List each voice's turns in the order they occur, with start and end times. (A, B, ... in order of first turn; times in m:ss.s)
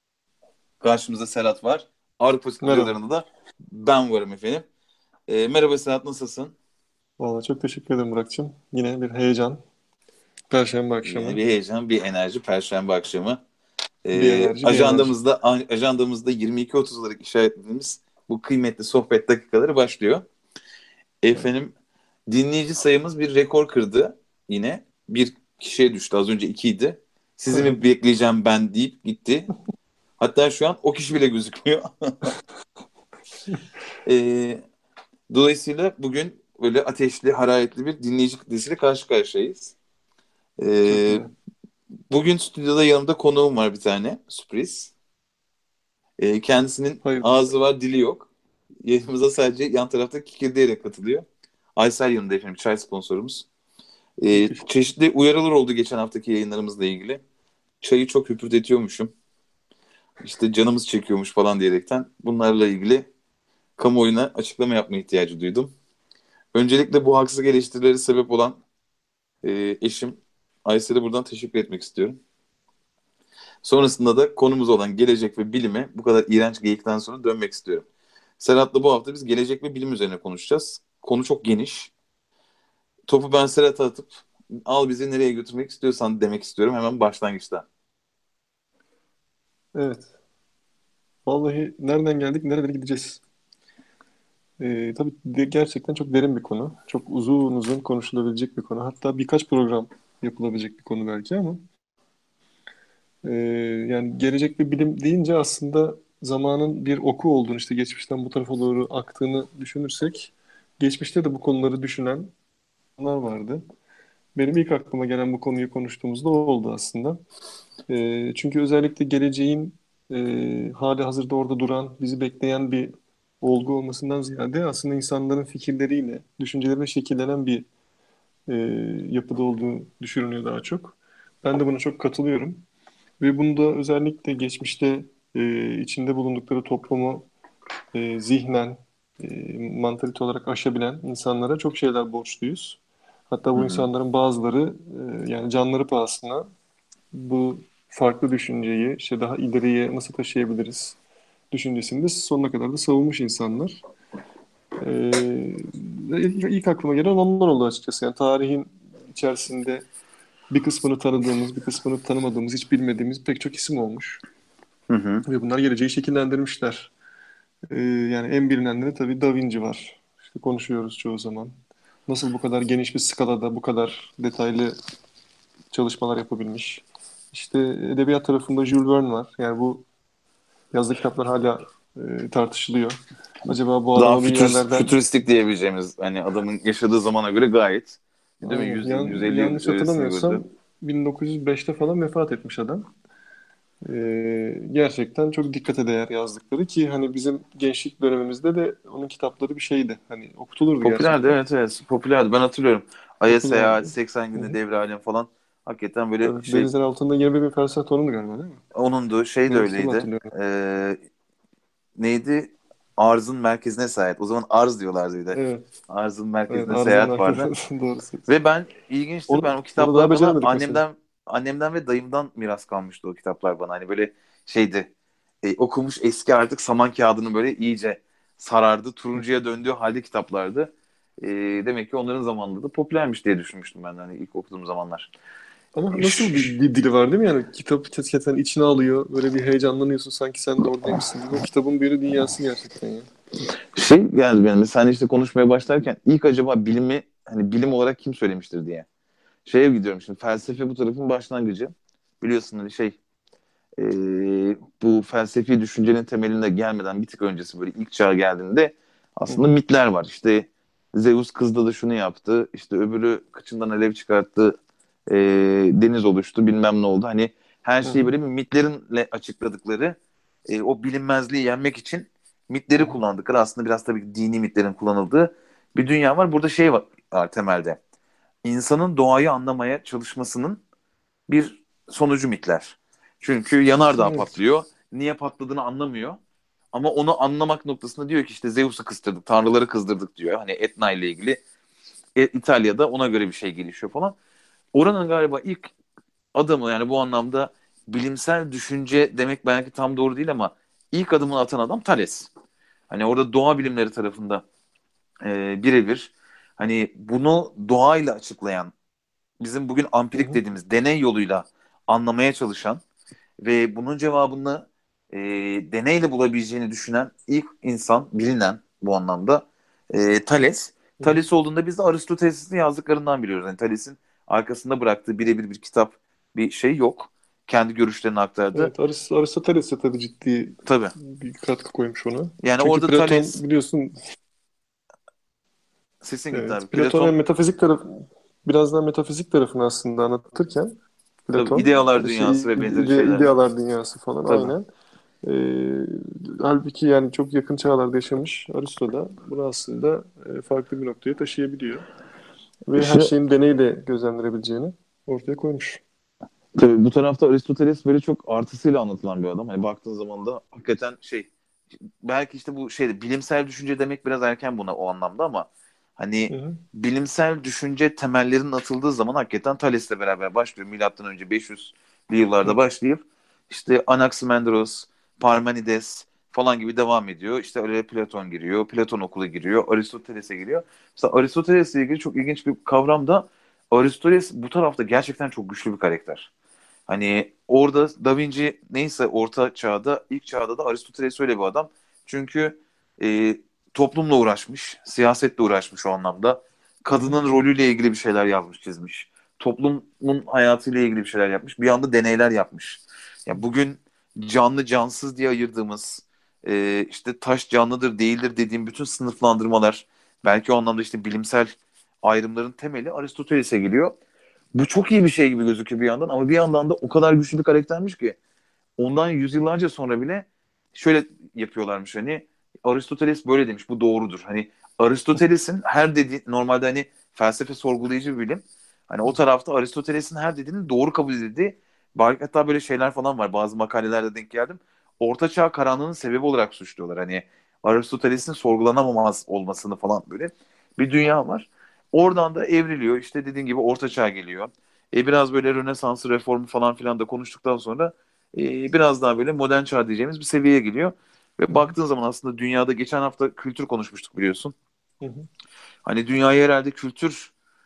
0:00.8-0:04.6 A
0:02.6-0:03.0 B
0:05.3-0:06.5 A
0:07.2-0:09.6 B
0:10.5-0:11.4 B
0:11.0-0:13.4 A
0:14.0-0:20.2 A
0:14.1-0:15.1 B
0:21.2-0:21.7 A
0:22.3-0:29.5 A
0:27.5-0:27.8 B
0:30.2-0:32.3 A
0:34.0-0:34.6 A
0:35.3-0:39.7 A
0:40.6-0:41.2 A
0:40.9-0:41.3 B
0:42.1-0:44.9 A
0:46.2-0:48.3 A
0:47.0-0:47.5 B
0:48.8-0:51.2 A
0:51.8-0:53.4 A
0:54.2-0:57.2 A
0:54.3-0:54.6 B
0:57.8-0:59.1 A
1:00.2-1:03.1 A
1:03.8-1:05.7 A
1:06.5-1:08.6 A
1:09.4-1:12.2 A
1:13.6-1:17.8 A
1:18.4-1:21.9 A
1:23.1-1:27.6 A
1:29.7-1:30.1 B
1:31.2-1:33.2 B
1:34.6-1:41.6 B
1:43.2-1:52.3 B
1:53.0-1:53.6 B
1:54.3-1:57.2 B
1:57.9-2:07.6 B
2:08.5-2:12.6 B
2:13.2-2:17.3 B
2:17.9-2:22.8 B
2:23.3-2:26.5 B
2:23.5-2:23.9 A
2:27.1-2:31.0 B
2:31.5-2:33.8 B
2:34.8-2:39.8 B
2:40.5-2:44.2 B
2:44.9-2:45.2 A
2:45.2-2:46.9 B
2:47.7-2:51.5 B
2:52.1-2:54.8 B
2:55.7-2:59.8 B
3:00.7-3:04.9 B
3:03.9-3:10.4 A
3:08.4-3:12.9 B
3:13.8-3:21.3 B
3:20.8-3:26.7 A
3:23.3-3:24.6 B
3:26.2-3:28.6 B
3:28.7-3:31.0 A
3:29.5-3:30.3 B
3:32.0-3:35.4 A
3:35.3-3:35.6 B
3:35.9-3:37.5 A
3:36.5-3:38.3 B
3:38.2-3:44.9 A
3:39.3-3:40.8 B
3:45.4-3:55.1 A
3:55.7-4:03.1 B
3:55.9-3:56.6 A
4:03.7-4:08.8 A
4:09.4-4:13.0 A
4:13.8-4:24.6 A
4:25.1-4:37.8 A
4:27.8-4:28.1 B
4:38.4-4:40.6 A
4:41.3-4:46.2 A
4:44.0-4:44.3 B
4:46.7-4:51.4 A
4:52.2-4:54.2 A
4:54.7-4:55.7 A
4:56.3-5:02.3 A
5:02.9-5:04.4 A
5:05.2-5:08.7 A
5:09.4-5:12.8 A
5:13.4-5:28.7 A
5:28.5-5:34.0 B
5:30.6-5:30.9 A
5:32.4-5:33.4 A
5:36.0-5:37.1 A
5:36.3-5:44.7 B
5:41.3-5:43.3 A
5:44.2-5:44.5 A
5:45.2-5:51.8 B
5:52.6-5:55.8 B
5:52.8-5:53.1 A
5:56.5-6:01.3 A
6:02.0-6:26.3 A
6:06.3-6:06.6 B
6:26.9-6:51.5 A
6:36.9-6:37.2 B
6:52.0-6:53.9 A
6:54.5-6:58.2 A
6:58.8-7:34.5 A
7:35.0-7:35.3 B
7:35.8-7:37.3 A